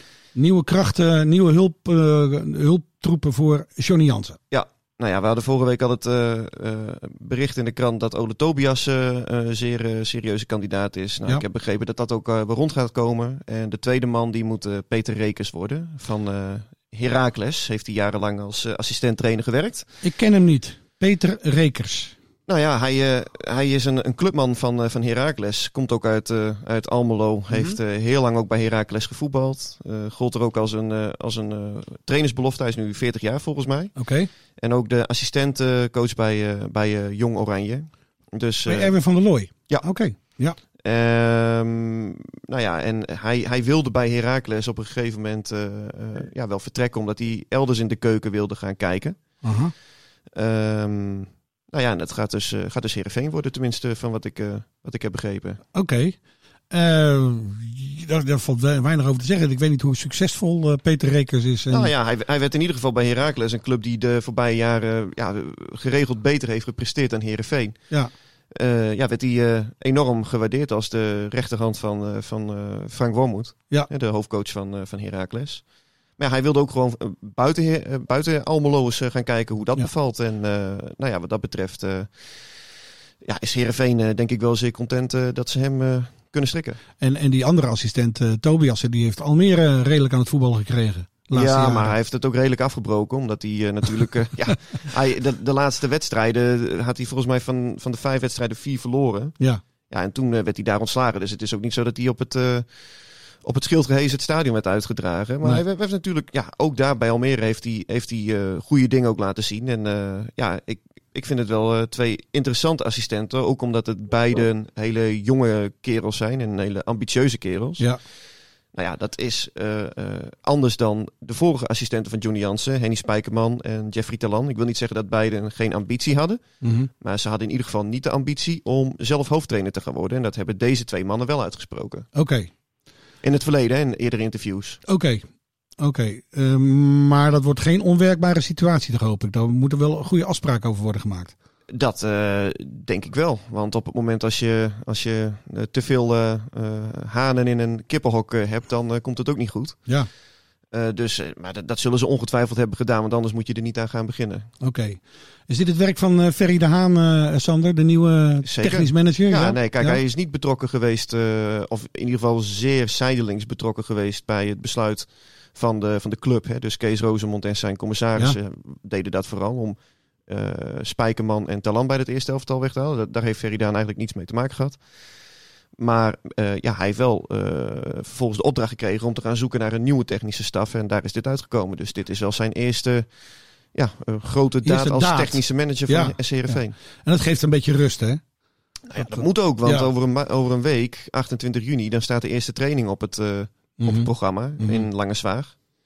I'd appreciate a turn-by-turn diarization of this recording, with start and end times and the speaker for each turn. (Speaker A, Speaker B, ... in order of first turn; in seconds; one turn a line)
Speaker A: 0.3-4.4
Speaker B: 4.5-19.9
Speaker A: 20.0-22.1
Speaker B: 22.5-34.0
Speaker A: 27.5-27.8
Speaker A: 34.0-34.3
Speaker B: 34.6-38.9
Speaker A: 38.7-40.6
Speaker B: 40.8-49.2
Speaker A: 49.4-49.7
Speaker B: 50.3-55.6
Speaker A: 55.7-56.2
Speaker A: 56.7-61.9
Speaker B: 61.7-67.8
Speaker B: 68.5-75.7
Speaker B: 76.2-82.3
Speaker B: 83.2-86.8
Speaker A: 87.0-91.9
Speaker B: 91.3-99.3
Speaker B: 99.9-102.7
Speaker B: 103.4-117.9
Speaker B: 118.7-132.1
Speaker A: 126.6-126.9
Speaker A: 132.1-132.5
Speaker B: 133.2-134.8
Speaker A: 134.9-135.2
Speaker A: 135.8-141.3
Speaker B: 141.7-149.8
Speaker B: 150.7-154.5
Speaker A: 154.6-160.0
Speaker B: 158.4-174.8
Speaker B: 175.8-183.1
Speaker B: 183.7-186.8
Speaker A: 184.7-188.2
Speaker B: 188.9-195.6
Speaker A: 189.0-189.9
Speaker A: 193.8-194.9